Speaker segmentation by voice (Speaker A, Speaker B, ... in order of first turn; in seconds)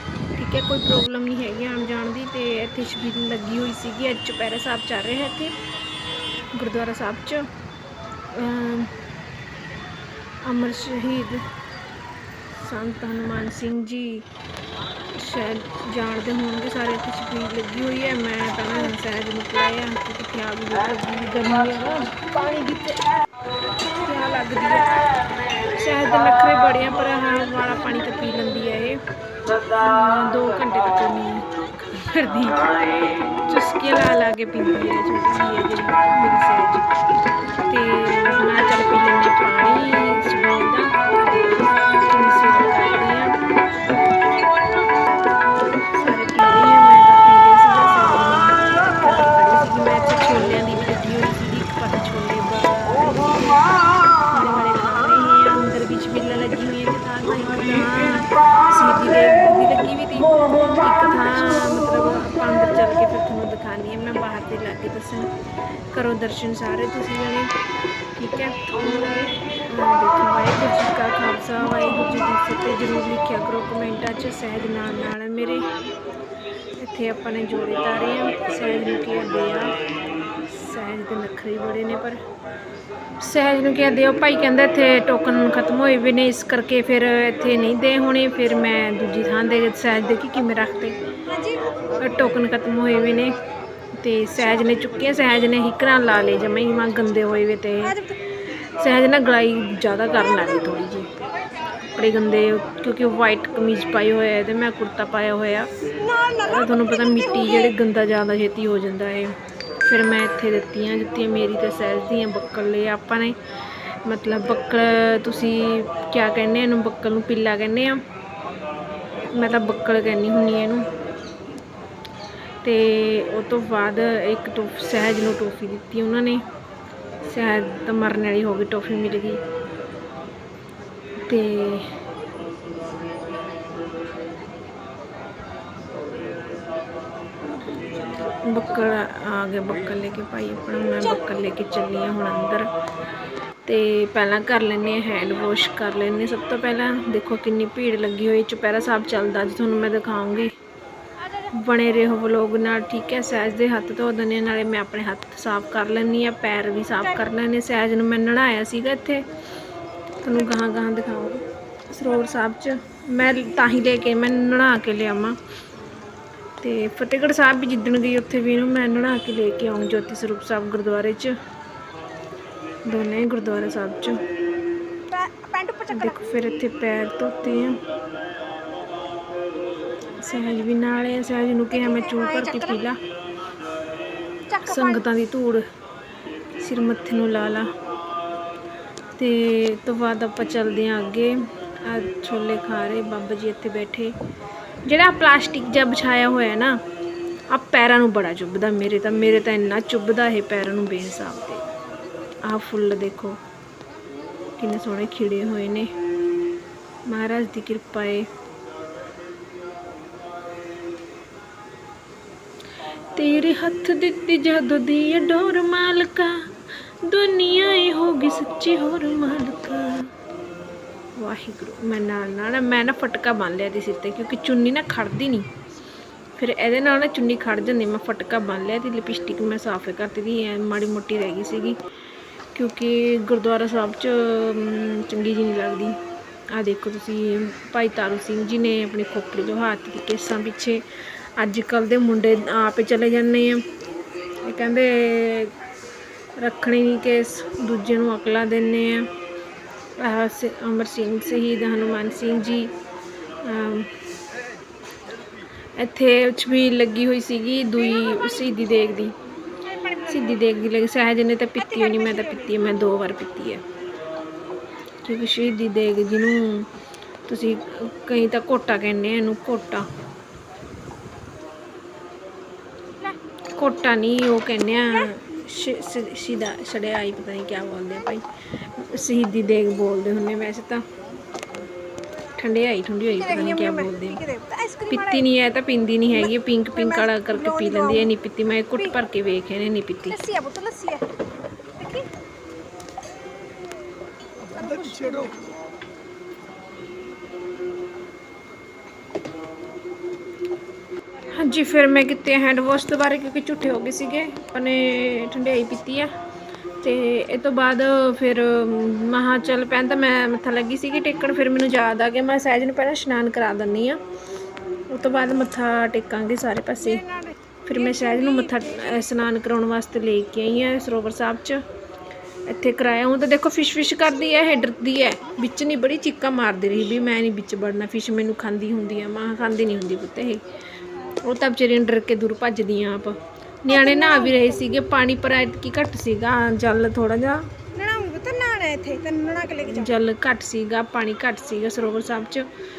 Speaker A: 0.4-5.5, 6.5-7.5, 8.3-8.9, 10.4-11.4, 12.6-14.2, 15.1-23.0, 23.9-24.9, 25.7-29.0, 29.7-32.8, 33.4-36.9, 37.7-41.4, 42.0-43.3, 46.0-53.6, 54.3-65.3, 65.9-67.5, 68.2-75.6, 76.8-79.7, 80.5-82.2, 83.2-91.0, 92.0-93.3, 94.0-98.0, 98.8-101.1, 101.9-105.7, 106.4-113.4, 114.0-118.0, 119.3-120.9, 122.6-126.5, 127.2-129.4, 131.3-131.9, 138.2-142.7, 143.7-150.5, 151.5-159.3, 160.2-165.4, 166.6-171.4, 172.8-174.2, 175.9-177.8, 180.2-183.0, 184.7-185.7, 186.6-187.7, 189.2-194.1, 194.9-196.8, 197.5-201.7, 202.4-203.4, 204.6-205.9, 207.1-208.3, 213.1-216.5, 217.1-220.1, 221.2-225.5, 226.4-231.8, 232.5-236.0, 236.5-240.8, 241.4-243.6, 244.4-245.6, 246.4-249.1, 250.0-252.7, 253.4-253.9, 255.8-259.2, 260.0-263.6, 265.0-266.7, 267.3-269.9, 273.6-280.9, 282.4-284.3, 284.9-290.2, 301.3-306.1, 306.8-314.0, 314.9-317.1, 317.7-321.6, 322.5-330.4, 331.2-337.5, 339.7-342.5
Speaker B: 91.3-91.6, 106.0-107.7, 175.1-176.2, 181.8-182.8, 184.5-185.0, 261.9-262.3, 283.3-285.2, 286.2-288.1, 290.1-291.1, 291.8-292.1, 294.5-295.5, 318.0-318.7, 333.7-334.4, 337.7-339.9